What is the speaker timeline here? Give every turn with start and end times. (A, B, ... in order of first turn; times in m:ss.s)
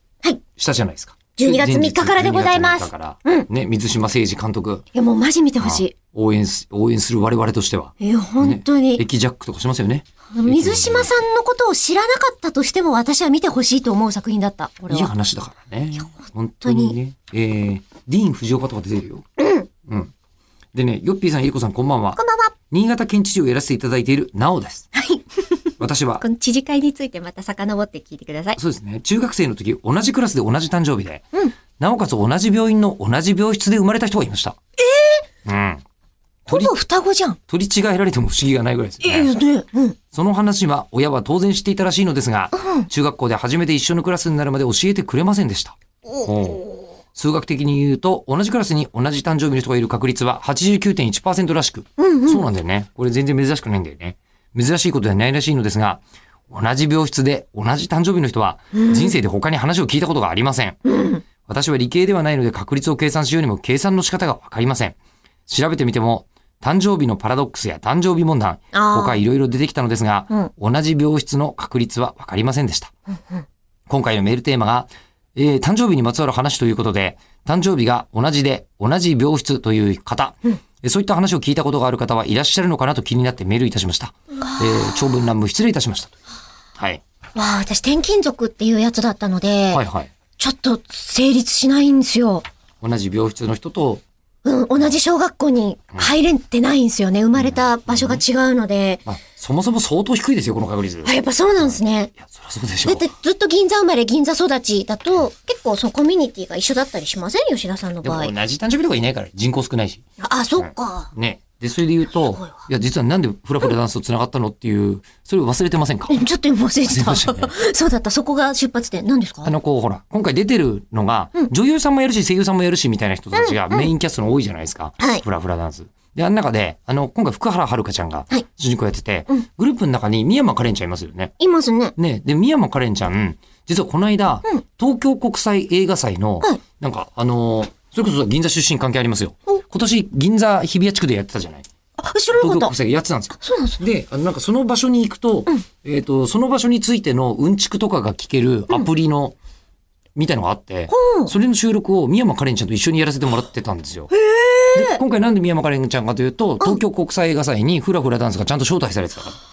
0:00.5-0:04.9 A
0:01.4-0:03.5 B
0:04.9-0:06.0 B
0:05.6-0:11.1 A
0:08.0-0:09.0 B
0:10.3-0:15.1 B
0:14.9-0:19.2 A
0:16.6-0:17.0 B
0:19.4-0:19.7 B
0:19.9-0:20.1 A
0:20.7-0:24.9 A
0:22.2-0:22.6 B
0:25.0-0:28.6 B
0:25.8-0:26.2 A
0:28.6-0:31.3 A
0:31.8-0:34.6 A
0:34.8-0:35.2 B
0:35.4-0:35.8 A
0:36.5-0:37.4 B
0:36.5-0:36.7 A
0:37.5-0:39.3 A
0:39.0-0:40.0 B
0:40.1-1:00.8 A
0:42.6-0:42.9 B
0:46.1-0:46.9 B
0:52.0-0:52.4 B
0:58.7-0:59.2 B
1:00.9-1:01.2 B
1:01.4-1:05.0 A
1:05.5-1:12.9 A
1:08.7-1:09.2 B
1:13.9-1:26.2 A
1:24.6-1:25.1 B
1:27.4-1:29.8 B
1:29.7-1:30.1 A
1:30.4-1:32.4 B
1:32.8-1:34.0 A
1:34.4-1:39.0 B
1:37.4-1:38.2 A
1:39.1-1:43.1 A
1:41.0-1:42.1 B
1:42.8-1:48.3 B
1:48.0-1:50.0 A
1:50.2-1:51.1 B
1:50.6-1:56.3 A
1:52.2-1:52.6 B
1:56.1-1:59.5 B
1:56.8-1:57.5 A
1:59.4-2:11.3 A
2:03.3-2:03.9 B
2:11.4-2:12.0 B
2:12.0-2:21.7 A
2:22.0-2:22.8 B
2:22.3-2:29.4 A
2:23.4-2:23.8 B
2:30.2-2:34.1 A
2:30.9-2:31.3 B
2:34.1-2:35.0 B
2:34.7-2:39.4 A